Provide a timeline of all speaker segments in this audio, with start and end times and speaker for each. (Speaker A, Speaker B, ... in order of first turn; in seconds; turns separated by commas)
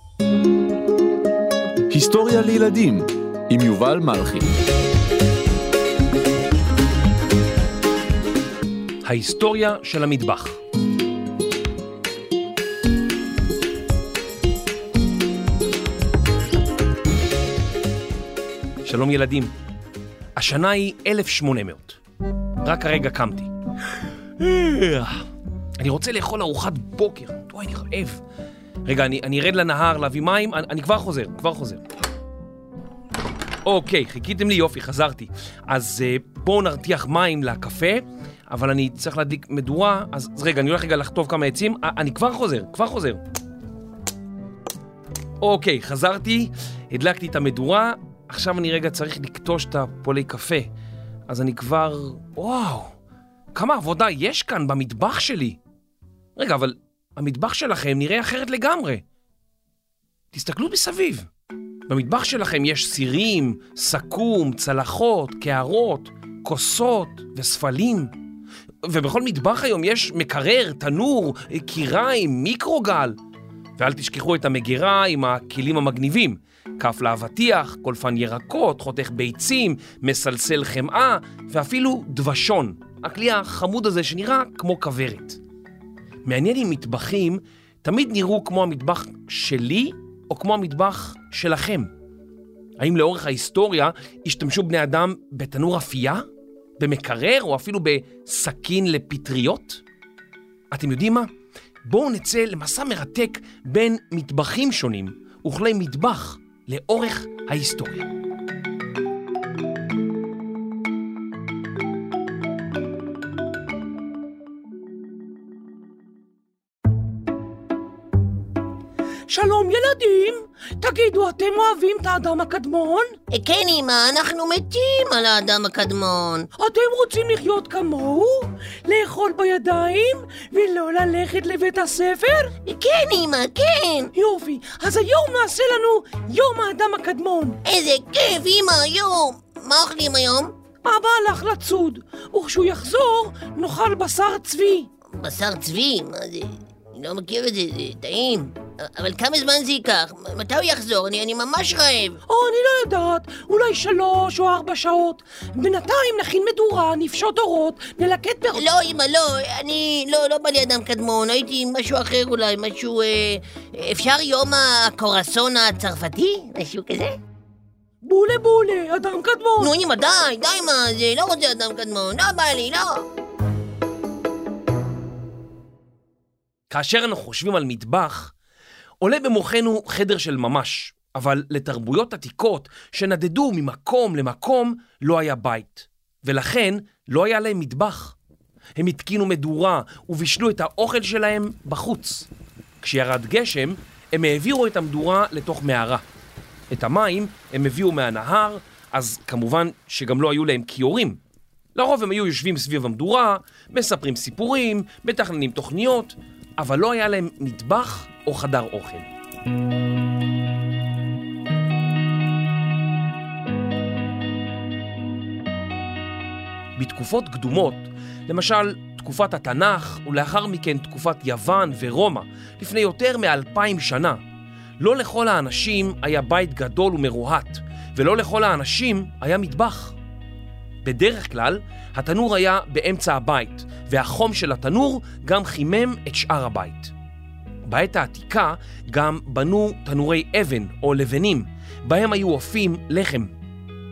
Speaker A: 1.9-4.5, Speaker B: 9.0-10.6, Speaker B: 18.8-19.5, Speaker B: 20.4-22.0, Speaker B: 22.6-23.5, Speaker B: 24.4-25.2, Speaker B: 25.8-28.2, Speaker B: 28.8-31.8, Speaker B: 33.6-43.2, Speaker B: 45.4-50.7, Speaker B: 51.3-52.9, Speaker B: 53.5-55.6, Speaker B: 56.4-59.0, Speaker B: 60.3-61.3, Speaker B: 61.9-68.1, Speaker B: 68.8-73.2, Speaker B: 73.8-85.4, Speaker B: 86.2-91.9, Speaker B: 92.8-96.2, Speaker B: 96.8-99.8, Speaker B: 100.7-101.3, Speaker B: 101.8-108.1, Speaker C: 119.3-123.2, Speaker D: 123.3-126.5, Speaker C: 126.6-132.5, Speaker D: 132.6-134.1, Speaker C: 134.1-137.6, Speaker D: 137.6-140.5, Speaker C: 140.8-144.9, Speaker D: 145.1-152.2, Speaker C: 152.3-158.7, Speaker D: 158.5-167.2, Speaker C: 168.0-169.7, Speaker D: 169.6-173.0, Speaker B: 176.7-178.3, Speaker B: 179.0-188.2, Speaker B: 188.8-192.3, Speaker B: 192.8-196.0, Speaker B: 196.7-201.2, Speaker B: 201.7-209.1, Speaker B: 216.8-224.2, Speaker B: 224.8-229.9, Speaker B: 230.8-236.9, Speaker B: 237.6-243.3